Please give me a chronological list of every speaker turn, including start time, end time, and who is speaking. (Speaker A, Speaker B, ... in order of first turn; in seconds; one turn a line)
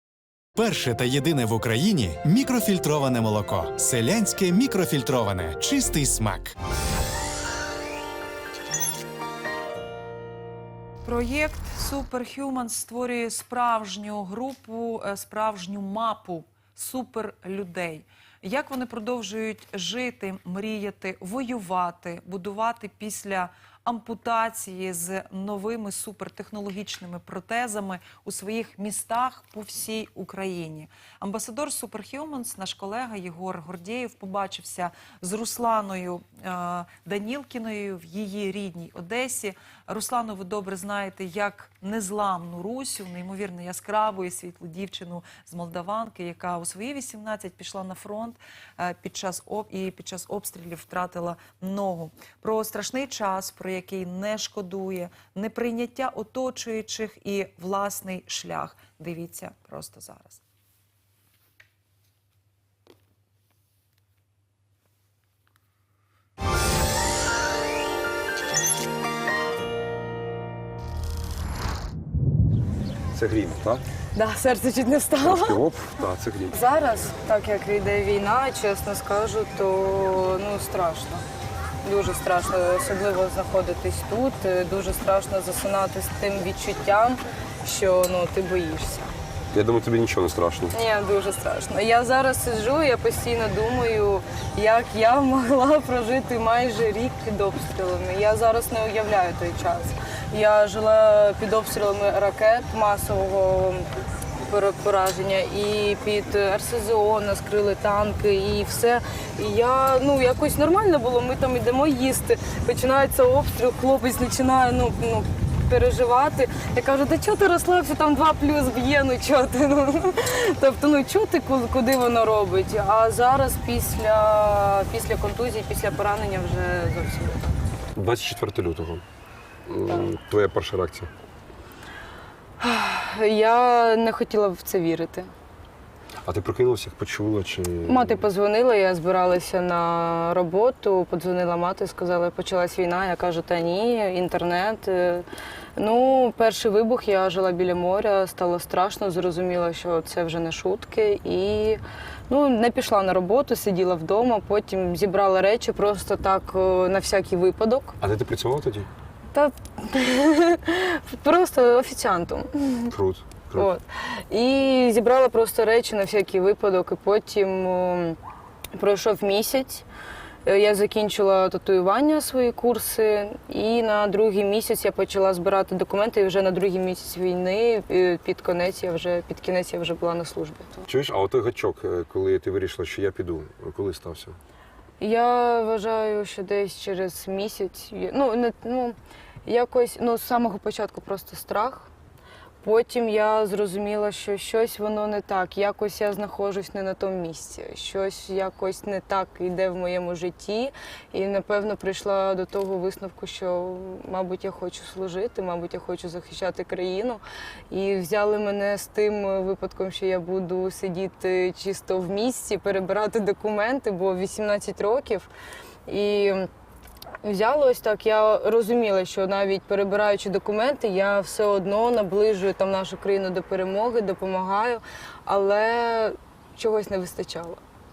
Speaker A: 0.6-6.5
Speaker B: 11.0-60.4
Speaker C: 73.1-73.8
Speaker D: 74.1-75.6
Speaker C: 75.2-76.6
Speaker D: 76.5-81.2
Speaker D: 81.8-89.1
Speaker C: 89.5-90.7
Speaker D: 90.7-103.9
Speaker D: 104.4-127.6
Speaker C: 128.0-129.0
Speaker C: 129.7-131.1
Speaker D: 132.6-135.3
Speaker C: 136.2-138.2
Speaker D: 137.8-157.9
Speaker C: 158.0-158.9
Speaker D: 159.3-162.9
Speaker C: 162.9-163.7
Speaker D: 163.6-168.2
Speaker D: 168.7-169.8
Speaker D: 170.4-180.8
Speaker C: 180.9-184.4
Speaker D: 185.0-191.9
Speaker D: 192.6-215.3
Speaker D: 215.8-216.5
Speaker D: 217.2-227.6